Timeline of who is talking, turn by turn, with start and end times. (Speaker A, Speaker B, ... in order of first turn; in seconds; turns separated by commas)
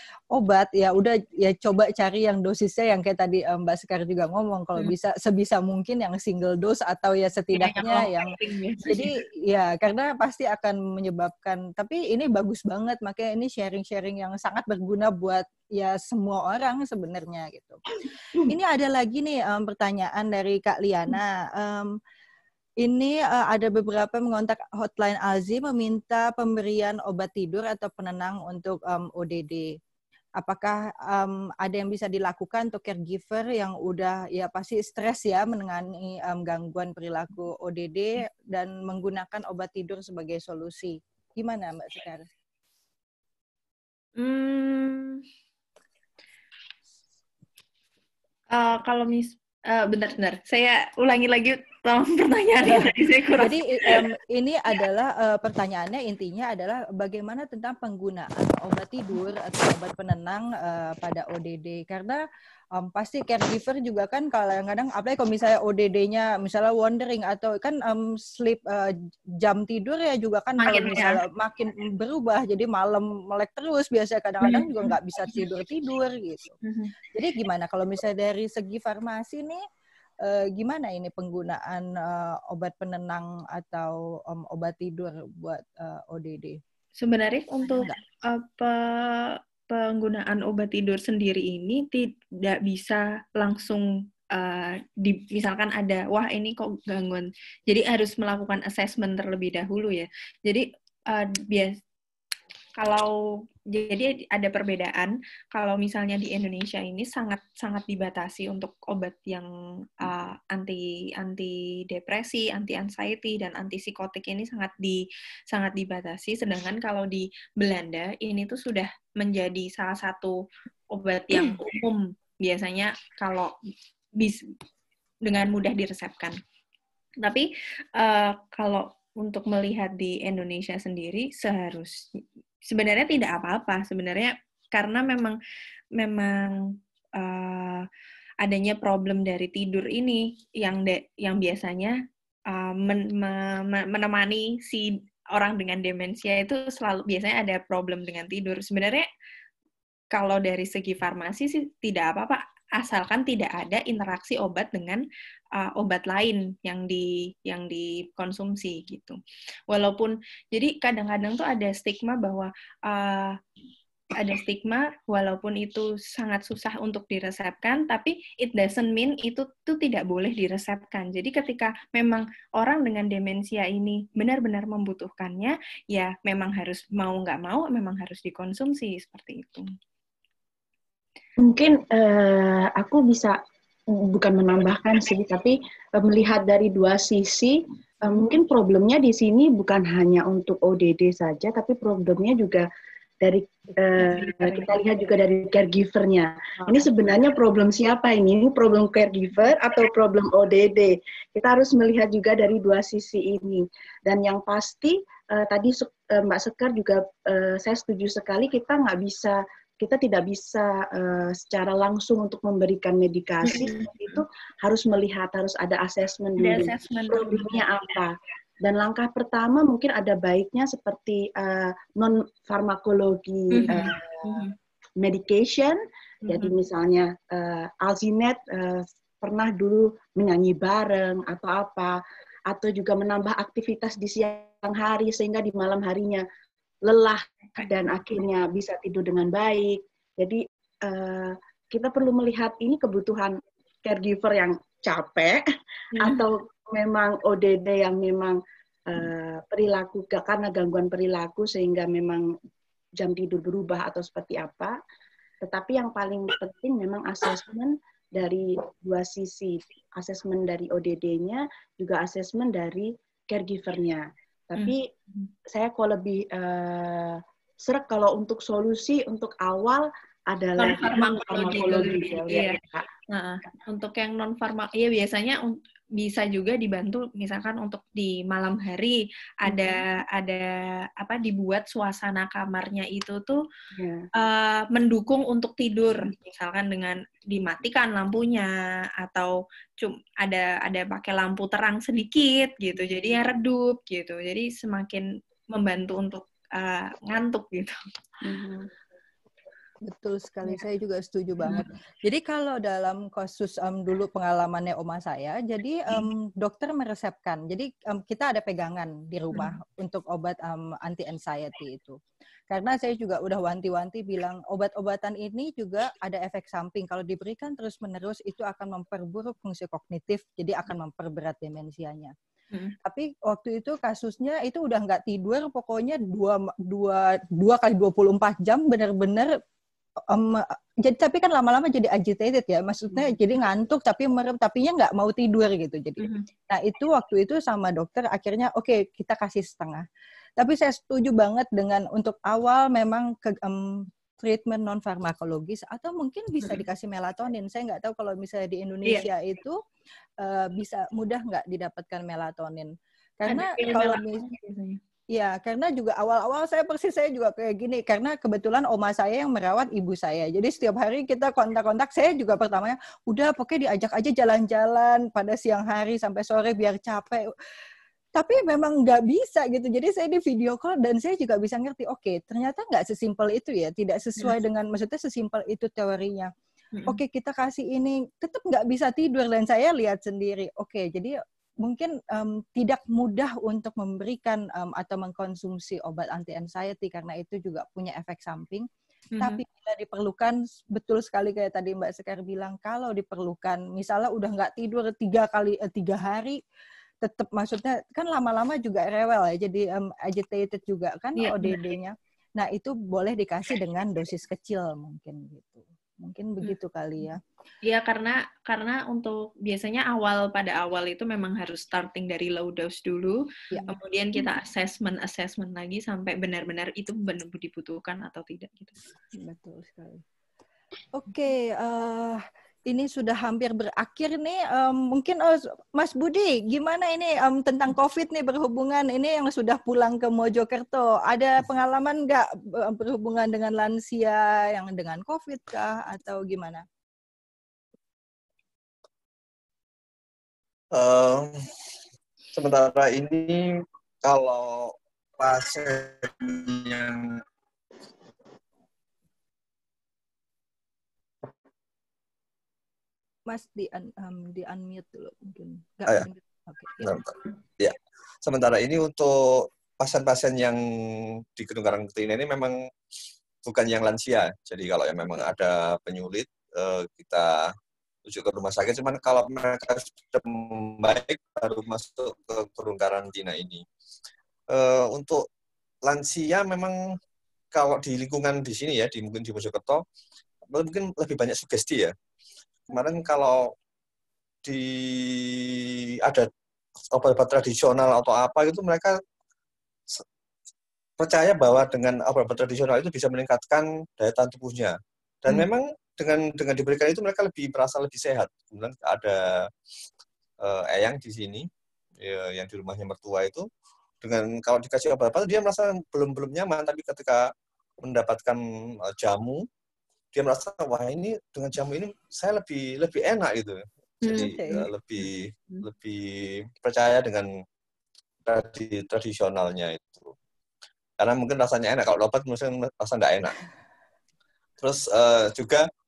Speaker A: 0.3-17.8, Speaker B: 7.5-9.1, Speaker A: 18.5-22.0, Speaker A: 22.8-29.8, Speaker A: 30.4-42.3, Speaker B: 44.2-45.2, Speaker B: 48.5-54.0, Speaker A: 52.6-62.2, Speaker A: 62.8-76.6, Speaker B: 70.6-71.2, Speaker B: 74.4-75.3, Speaker B: 76.6-76.9, Speaker A: 77.1-79.6, Speaker A: 80.2-86.6, Speaker B: 87.0-101.8, Speaker A: 87.7-88.0, Speaker B: 102.8-103.1, Speaker B: 103.7-109.5, Speaker B: 110.0-123.5, Speaker B: 125.2-126.4, Speaker B: 127.2-132.0, Speaker B: 132.7-135.4, Speaker B: 136.0-136.6, Speaker B: 137.2-137.8, Speaker B: 138.4-142.0, Speaker B: 142.5-149.1, Speaker B: 150.1-155.0, Speaker B: 155.6-159.2, Speaker B: 159.7-163.4, Speaker B: 164.1-179.7, Speaker C: 181.4-183.4, Speaker C: 183.9-192.7, Speaker C: 193.2-224.4, Speaker B: 194.0-194.8, Speaker B: 196.6-196.9, Speaker B: 213.4-214.2, Speaker B: 216.4-217.6, Speaker B: 223.5-224.5, Speaker C: 225.0-236.2, Speaker B: 226.2-226.6, Speaker C: 236.8-245.4, Speaker B: 245.9-246.2, Speaker C: 246.0-252.3, Speaker C: 253.0-254.8, Speaker C: 255.4-264.9, Speaker B: 264.6-265.3, Speaker C: 265.5-272.9, Speaker B: 270.6-272.6, Speaker B: 273.1-283.4, Speaker C: 279.5-279.8, Speaker C: 283.7-284.1, Speaker B: 284.1-297.8, Speaker C: 292.7-293.1, Speaker C: 298.2-298.7, Speaker A: 299.8-322.1, Speaker A: 322.8-329.4, Speaker A: 330.1-339.8, Speaker B: 332.9-333.2, Speaker B: 336.0-336.3, Speaker A: 340.4-349.6, Speaker A: 350.2-354.2, Speaker B: 353.3-354.8, Speaker A: 355.1-367.3, Speaker A: 368.1-376.3, Speaker A: 376.9-388.7, Speaker A: 389.2-396.4, Speaker A: 397.0-407.2, Speaker B: 401.2-401.6, Speaker B: 407.6-418.8, Speaker A: 413.5-413.8, Speaker A: 419.1-420.0, Speaker A: 420.9-436.6, Speaker D: 440.7-441.5, Speaker D: 442.4-447.2, Speaker A: 453.3-456.9, Speaker D: 456.8-460.6, Speaker D: 461.4-462.6, Speaker D: 463.4-467.5, Speaker D: 468.1-473.6, Speaker D: 474.5-475.2, Speaker D: 475.8-476.8, Speaker D: 477.5-479.8, Speaker D: 480.5-481.9, Speaker D: 482.7-483.5, Speaker D: 484.4-486.3, Speaker D: 486.9-489.0, Speaker D: 491.0-499.5, Speaker D: 500.4-501.5, Speaker D: 502.0-503.5, Speaker D: 504.0-507.3, Speaker D: 507.8-509.4, Speaker D: 510.1-517.3, Speaker B: 514.0-514.7, Speaker A: 514.1-514.6, Speaker D: 518.3-520.1, Speaker D: 521.0-523.4, Speaker D: 524.6-525.7